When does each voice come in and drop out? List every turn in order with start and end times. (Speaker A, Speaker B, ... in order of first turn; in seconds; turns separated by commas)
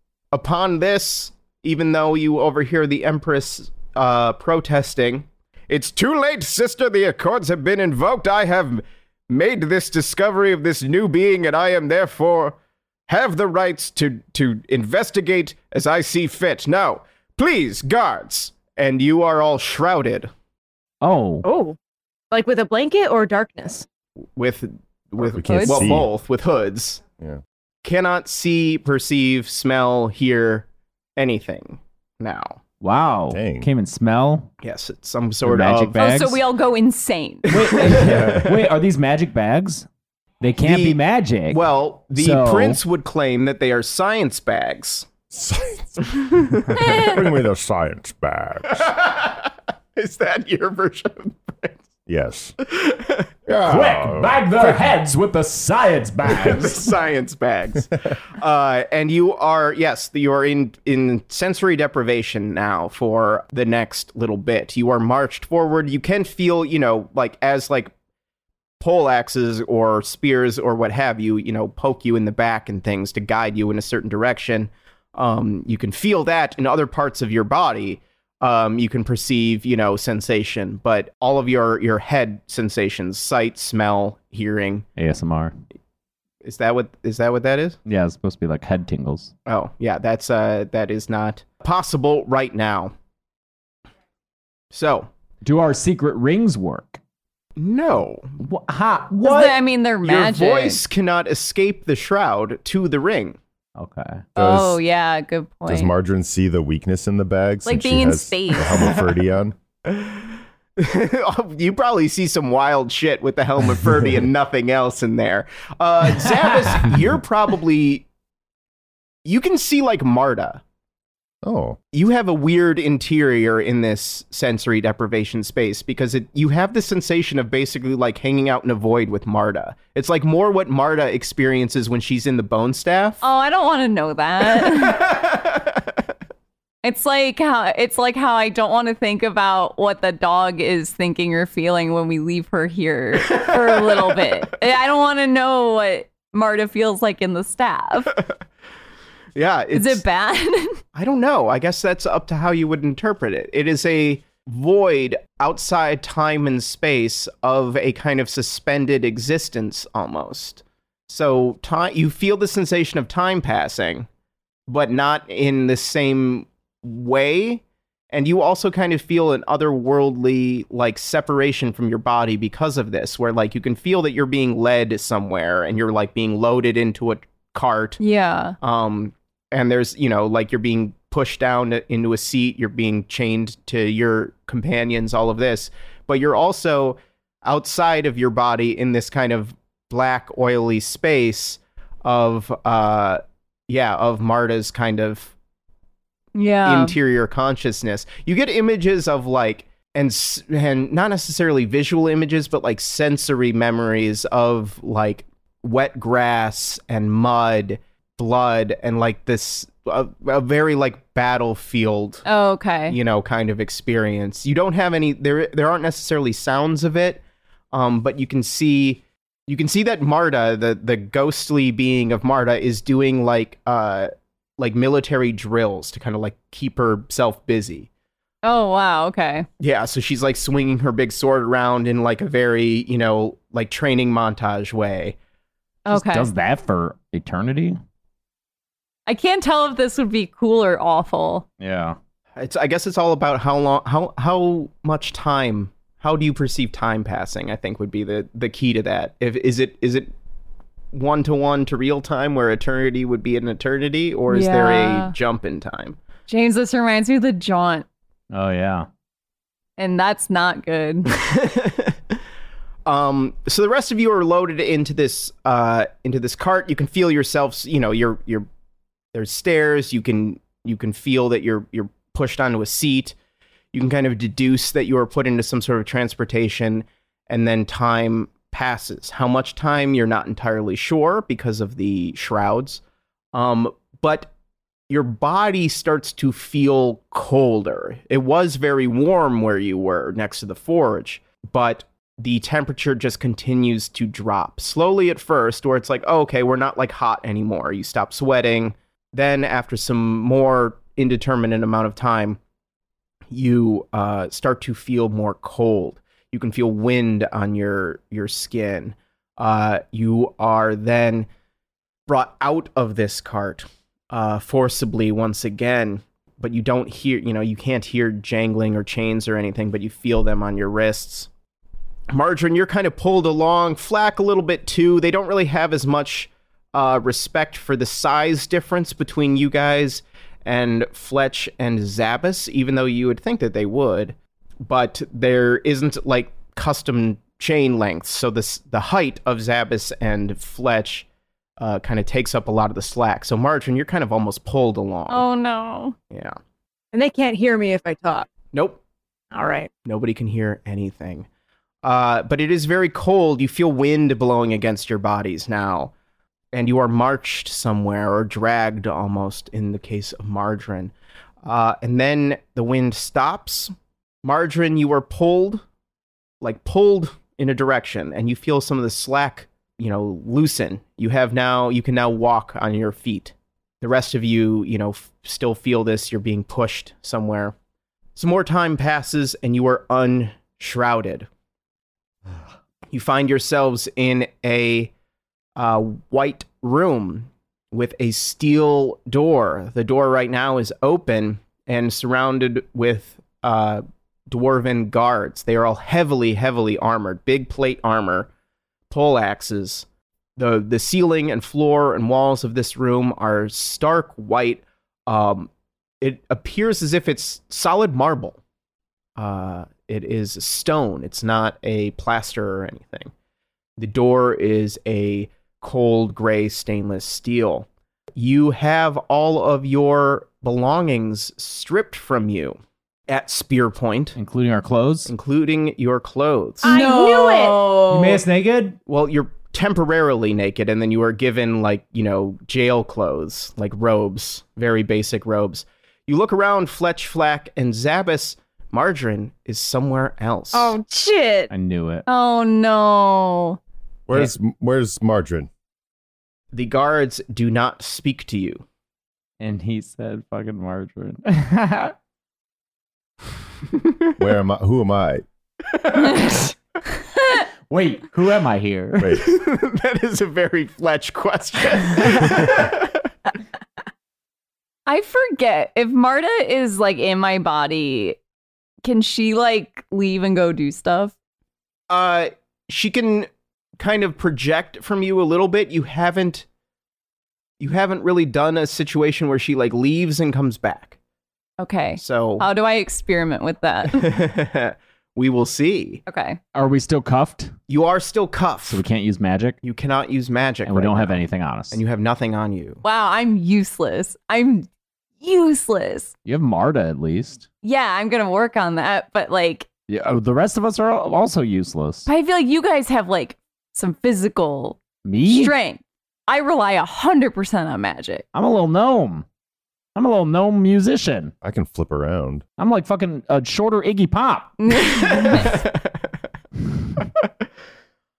Speaker A: 0.3-12.6, Speaker A: 13.1-20.3, Speaker B: 21.0-21.4, Speaker C: 21.4-21.8, Speaker C: 22.3-23.9, Speaker A: 24.4-27.0, Speaker D: 25.2-26.1, Speaker E: 25.4-25.8, Speaker A: 27.8-32.6, Speaker B: 32.8-34.5, Speaker D: 33.3-33.7, Speaker A: 34.6-36.0, Speaker B: 35.4-36.4, Speaker E: 36.0-37.5, Speaker B: 37.5-39.9, Speaker A: 37.5-38.5, Speaker D: 38.0-38.5, Speaker B: 40.4-41.6, Speaker A: 40.6-45.1, Speaker B: 42.1-42.8, Speaker D: 45.3-48.9, Speaker A: 46.2-46.8, Speaker E: 46.8-47.2, Speaker A: 48.7-51.8, Speaker D: 52.1-52.5, Speaker A: 52.6-53.3, Speaker D: 53.5-54.8, Speaker B: 53.6-56.9, Speaker A: 56.3-67.9, Speaker A: 68.8-84.8, Speaker B: 85.0-85.5, Speaker A: 86.4-87.8, Speaker B: 87.9-89.3, Speaker A: 89.5-92.9, Speaker A: 94.7-95.1, Speaker B: 95.4-97.0, Speaker A: 97.6-98.3, Speaker B: 98.4-99.6, Speaker E: 99.2-100.8, Speaker A: 100.0-103.4, Speaker B: 103.8-104.2, Speaker D: 104.4-104.8, Speaker E: 104.4-105.9, Speaker D: 105.7-109.6, Speaker E: 107.6-109.0, Speaker A: 109.9-118.1, Speaker A: 119.2-120.6, Speaker D: 121.4-121.8, Speaker A: 121.9-133.2, Speaker E: 133.2-135.1, Speaker A: 134.6-135.8, Speaker E: 136.8-148.2, Speaker A: 143.2-144.3, Speaker A: 149.4-150.0, Speaker E: 149.7-150.8, Speaker A: 150.9-164.1, Speaker A: 164.7-178.0, Speaker E: 178.0-178.6, Speaker A: 178.6-195.3, Speaker E: 196.3-196.9, Speaker A: 196.6-212.2, Speaker E: 212.2-213.0, Speaker A: 212.9-217.2, Speaker A: 217.7-227.9, Speaker E: 228.4-229.5, Speaker A: 229.6-235.2, Speaker E: 235.9-236.3, Speaker B: 235.9-237.8, Speaker E: 239.1-241.4, Speaker B: 241.6-242.0, Speaker A: 242.4-250.1, Speaker A: 250.9-256.0, Speaker E: 254.3-255.1, Speaker E: 256.3-257.9, Speaker B: 258.3-258.9, Speaker E: 259.8-261.1, Speaker A: 261.2-262.0, Speaker A: 262.9-268.5, Speaker A: 269.1-273.1, Speaker A: 273.7-282.8, Speaker A: 283.3-284.3, Speaker A: 284.9-302.4, Speaker A: 303.3-311.3, Speaker A: 312.1-321.3, Speaker A: 322.1-341.1, Speaker A: 341.6-345.2, Speaker E: 345.1-345.9, Speaker A: 346.1-346.4, Speaker C: 346.9-348.3, Speaker A: 348.5-348.8, Speaker C: 349.3-349.7, Speaker A: 349.9-351.3, Speaker A: 351.8-355.9, Speaker A: 356.5-360.9, Speaker A: 361.4-365.6, Speaker A: 366.4-377.5, Speaker A: 378.1-381.3, Speaker A: 382.9-384.9, Speaker A: 385.6-398.3, Speaker A: 398.9-405.5, Speaker A: 406.0-408.4, Speaker A: 409.2-413.1, Speaker A: 413.8-422.6, Speaker A: 423.1-424.2, Speaker B: 424.1-425.1, Speaker A: 425.1-426.7, Speaker C: 426.6-428.1, Speaker E: 426.7-428.2, Speaker B: 427.8-428.8, Speaker A: 428.9-440.7, Speaker C: 440.5-441.5, Speaker B: 441.5-442.1, Speaker E: 442.1-443.6, Speaker D: 444.1-445.5, Speaker A: 446.5-448.6, Speaker B: 449.4-451.9, Speaker D: 454.2-455.2, Speaker A: 455.9-456.3, Speaker E: 456.1-456.4, Speaker B: 457.7-459.2, Speaker A: 459.1-463.0, Speaker E: 464.9-468.2, Speaker E: 468.8-471.1, Speaker A: 471.9-476.4, Speaker A: 477.6-481.0, Speaker E: 481.6-484.1, Speaker A: 482.0-482.4, Speaker A: 483.9-486.0, Speaker E: 486.1-486.4, Speaker B: 486.5-487.5, Speaker A: 487.7-488.8, Speaker B: 488.7-489.6, Speaker A: 489.6-492.8, Speaker B: 490.6-491.8, Speaker E: 492.8-494.7, Speaker E: 495.2-496.1, Speaker B: 496.2-497.4, Speaker E: 497.6-499.7, Speaker B: 499.9-502.1, Speaker E: 502.1-508.2, Speaker B: 505.0-505.6, Speaker B: 508.3-509.2, Speaker B: 509.9-511.3, Speaker D: 511.4-512.4, Speaker B: 512.6-514.5, Speaker E: 514.6-515.6, Speaker A: 514.9-516.0